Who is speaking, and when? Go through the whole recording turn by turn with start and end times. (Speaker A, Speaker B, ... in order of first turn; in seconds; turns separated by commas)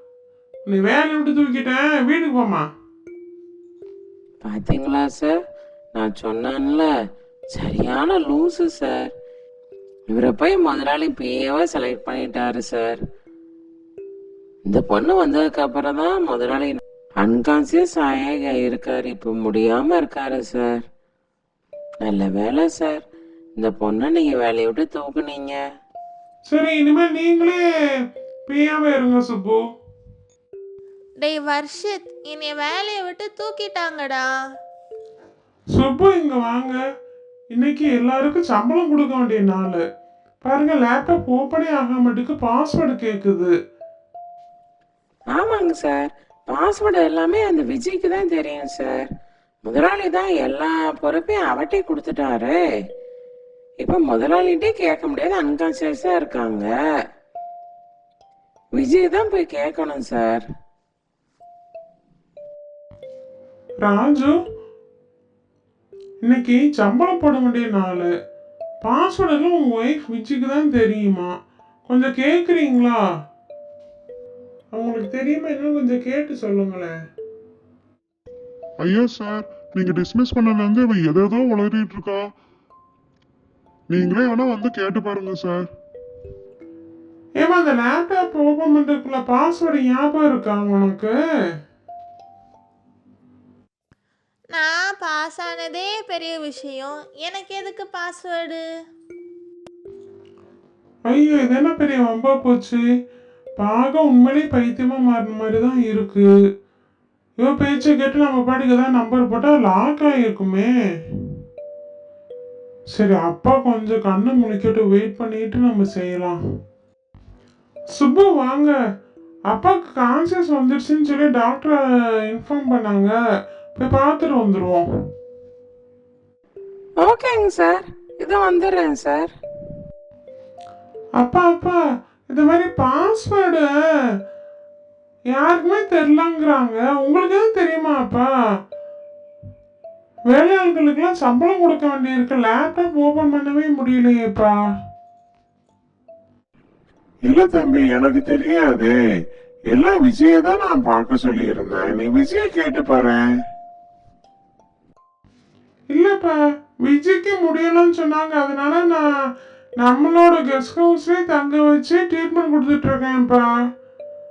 Speaker A: 0.7-2.7, Speaker B: 4.4-5.4, Speaker B: 6.0-6.9, Speaker B: 7.5-9.1, Speaker B: 10.1-13.0, Speaker B: 14.7-20.8, Speaker B: 22.0-23.0, Speaker B: 23.6-25.6, Speaker A: 26.5-27.6, Speaker A: 28.5-29.6, Speaker C: 31.2-34.2, Speaker A: 35.7-36.8, Speaker A: 37.5-39.8, Speaker A: 40.4-43.5, Speaker B: 45.3-49.1, Speaker B: 49.6-52.6, Speaker B: 53.8-56.7, Speaker B: 58.8-60.5, Speaker A: 63.8-64.4, Speaker A: 66.2-68.1, Speaker A: 68.8-71.3, Speaker A: 71.9-73.0, Speaker A: 74.7-77.0, Speaker D: 78.8-82.3, Speaker D: 83.9-85.7, Speaker A: 87.4-91.2, Speaker C: 94.5-98.6, Speaker A: 101.0-102.8, Speaker A: 103.6-106.3, Speaker A: 107.4-110.7, Speaker A: 112.9-116.4, Speaker A: 117.9-118.8, Speaker A: 119.5-123.1, Speaker A: 123.8-124.9, Speaker B: 127.0-129.3, Speaker A: 131.2-133.7, Speaker A: 135.3-138.3, Speaker A: 140.3-144.6, Speaker E: 147.2-149.0, Speaker E: 149.7-153.3, Speaker A: 155.9-159.1, Speaker A: 159.8-163.5